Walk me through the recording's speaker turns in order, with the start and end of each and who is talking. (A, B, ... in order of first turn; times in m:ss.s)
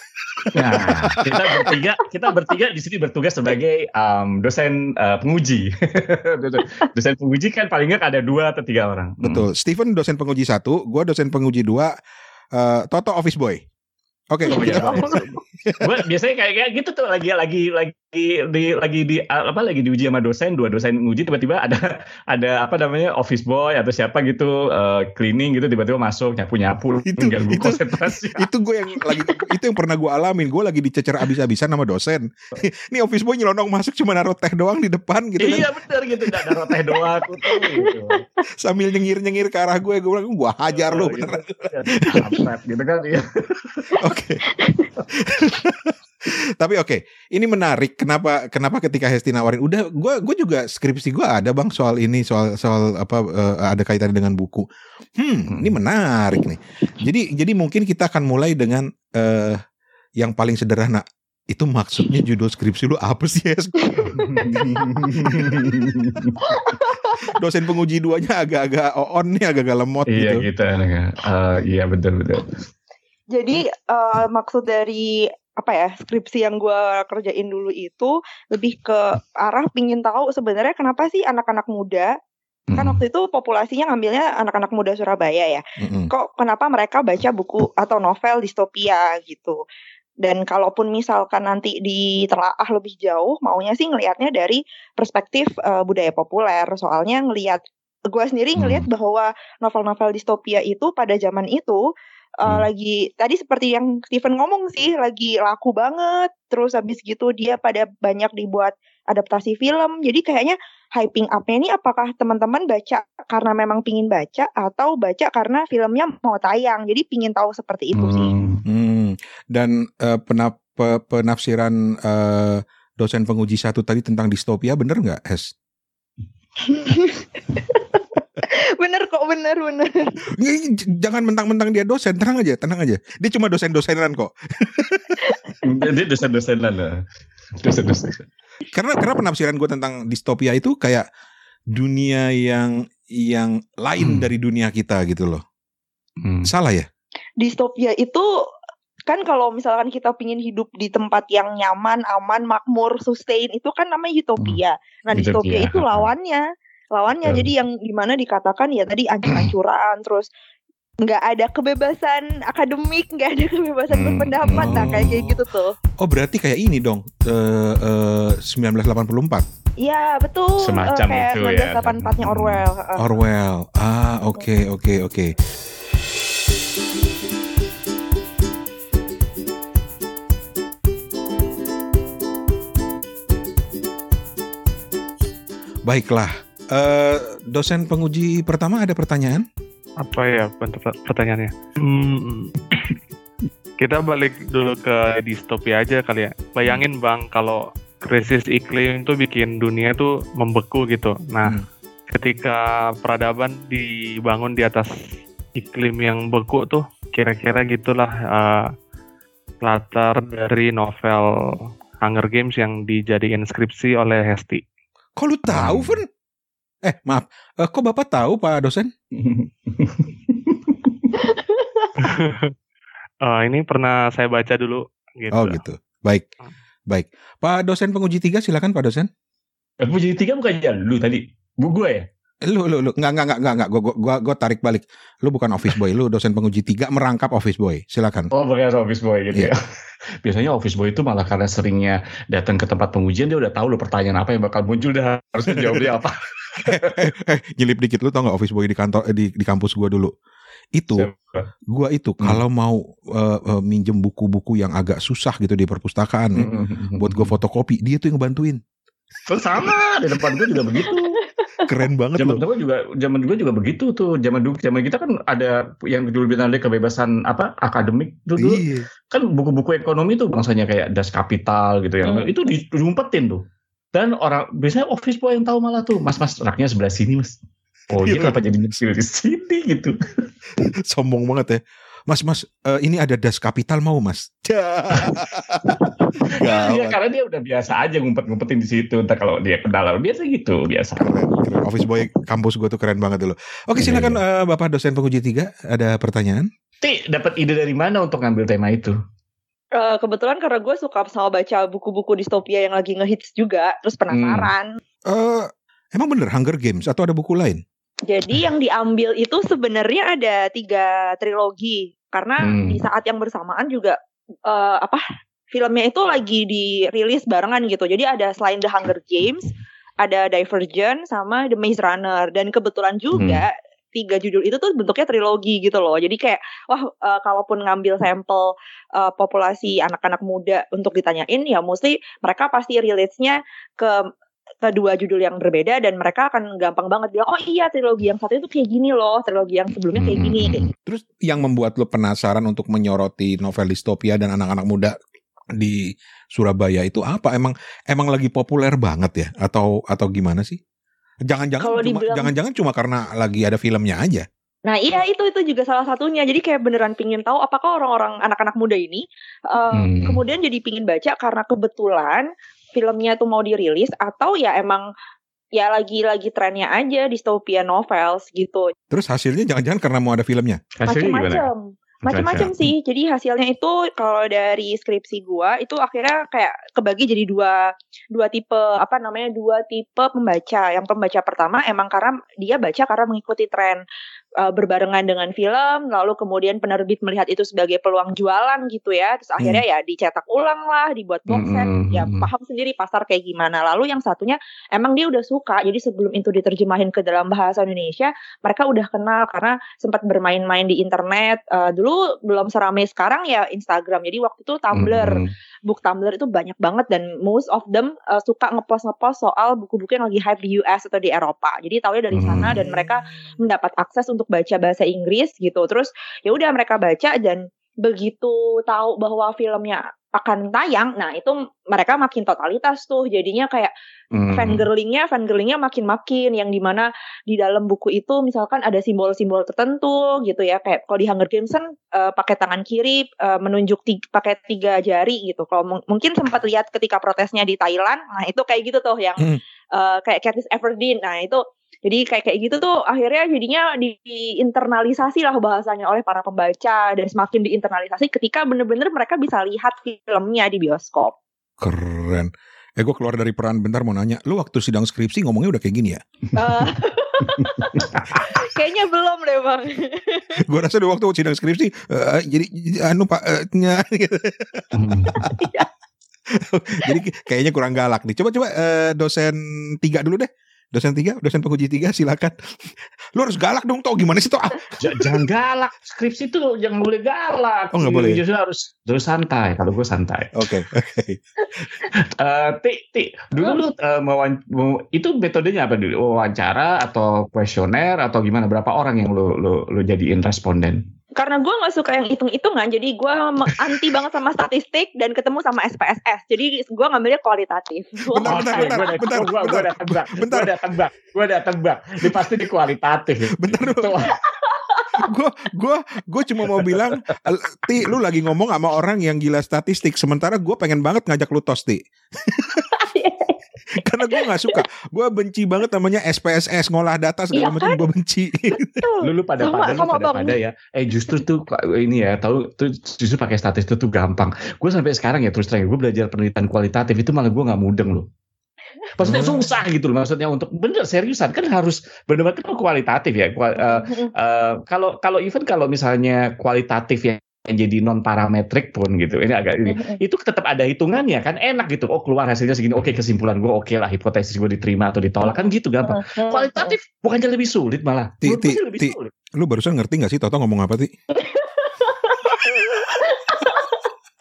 0:00.4-0:01.8 A
0:00.5-0:09.5 B
0:09.2-0:11.9 A
0:12.5-0:13.6 A
0:14.3-0:16.0 A
0:14.5-0:28.5 B
0:14.5-0:15.2 C
0:27.1-0:35.7 A
0:35.4-0:38.2 B
0:36.3-0:36.7 A
0:37.5-0:37.9 C
0:38.6-0:42.3 A
0:40.7-0:44.0 B
0:44.0-0:44.4 A
0:44.5-0:44.9 C
0:45.2-0:54.6 A
0:55.2-0:59.6 A
0:55.5-0:55.7 B
1:00.2-1:04.2 A
1:03.8-1:05.7 C
1:04.2-1:06.4 B
1:06.4-1:07.2 C
1:07.3-1:10.4 A
1:10.1-1:12.5 B
1:13.3-1:22.1 C
1:22.7-1:23.0 B
1:22.8-1:29.6 C
1:25.8-1:26.1 A
1:30.2-1:41.8 C
1:38.6-1:38.9 B
1:42.4-1:58.3 C
1:58.0-1:58.6 B
1:58.6-2:05.5 A
2:06.6-2:08.2 C
2:08.8-2:10.1 C
2:10.3-2:15.2 A
2:15.2-2:15.8 C
2:15.6-2:17.0 B
2:17.6-2:18.2 B
2:18.7-2:21.0 A
2:21.7-2:25.4 A
2:24.0-2:24.3 B
2:26.2-2:26.5 B
2:26.4-2:26.9 A
2:27.4-2:28.3 C
2:29.1-2:40.3 C
2:35.1-2:36.1 B
2:41.0-2:45.7 C
2:43.9-2:45.3 B
2:44.5-2:45.3 A
2:46.0-2:49.4 A
2:49.8-2:53.0 C
2:50.6-2:52.6 B
2:53.0-2:55.3 A
3:05.8-3:09.4 A
3:10.0-3:12.9 D
3:13.8-3:24.9 D
3:25.6-3:28.7 D
3:29.6-3:34.6 D
3:35.2-3:36.1 A
3:35.5-3:36.0 B
3:36.8-3:38.9 A
3:39.1-3:41.1 B
3:41.1-3:42.0 C
3:42.0-3:42.5 D
3:43.2-3:45.6 D
3:45.3-3:46.2 A
3:46.9-3:49.1 A
3:49.8-3:52.0 B
3:52.4-3:58.3 A
3:58.3-3:59.6 B
4:00.2-4:07.0 B
4:05.5-4:05.9 A
4:06.6-4:10.1 A
4:10.7-4:11.1 A
4:10.9-4:11.5 B
4:11.7-4:18.6 A
4:16.4-4:17.3 B
4:19.3-4:21.2 B
4:20.8-4:21.7 C
4:21.6-4:22.4 A
4:22.2-4:33.4 B
4:28.4-4:28.9 A
4:32.0-4:32.3 C
4:33.9-4:37.4 B
4:37.9-4:40.0 B
4:38.0-4:38.4 A
4:40.9-4:47.0 A
4:45.8-4:51.1 B
4:51.0-4:56.5 A
4:53.8-4:54.2 B
4:56.8-4:59.0 B
4:59.7-5:04.7 C
5:04.1-5:04.5 B
5:05.1-5:07.6 A
5:08.1-5:19.5 C
5:12.4-5:12.8 B
5:20.0-5:34.1 C
5:23.1-5:23.4 B
5:34.6-5:40.6 C
5:39.9-5:40.7 B
5:40.8-5:44.9 A
5:45.5-5:50.6 A
5:51.3-5:54.2 A
5:51.6-5:52.3 C
5:54.7-6:04.8 C
5:59.7-6:00.2 B
6:05.6-6:08.7 C
6:08.9-6:10.6 A
6:10.7-6:11.4 B
6:10.8-6:23.8 C
6:12.0-6:12.7 B
6:24.4-7:03.7 C
6:31.3-6:32.3 B
6:44.7-6:45.3 B
6:52.2-6:52.6 B
6:52.4-6:52.8 A
7:04.1-7:04.6 B
7:04.3-7:31.1 C
7:31.6-7:36.0 A
7:36.4-7:40.4 C
7:37.2-7:38.2 B
7:40.4-7:45.5 A
7:44.7-7:45.2 B
7:45.2-7:45.7 C
7:46.3-7:55.0 A
7:54.8-8:00.3 B
7:57.7-7:58.2 A
8:00.3-8:01.2 A
8:02.0-8:10.8 B
8:11.2-8:18.9 C
8:18.1-8:20.5 A
8:18.2-8:24.1 B
8:22.0-8:22.3 A
8:23.4-8:24.0 A
8:24.1-8:24.9 C
8:25.0-8:32.6 A
8:26.6-8:26.9 B
8:32.7-8:33.3 C
8:33.8-8:38.8 A
8:34.1-8:34.6 C
8:37.3-8:37.8 C
8:38.7-8:40.4 C
8:39.0-8:48.0 B
8:49.0-9:09.1 B
8:49.0-8:49.4 A
8:53.6-8:54.1 C
8:59.7-9:00.0 C
9:05.3-9:06.8 C
9:08.2-9:10.9 A
9:11.2-9:13.7 C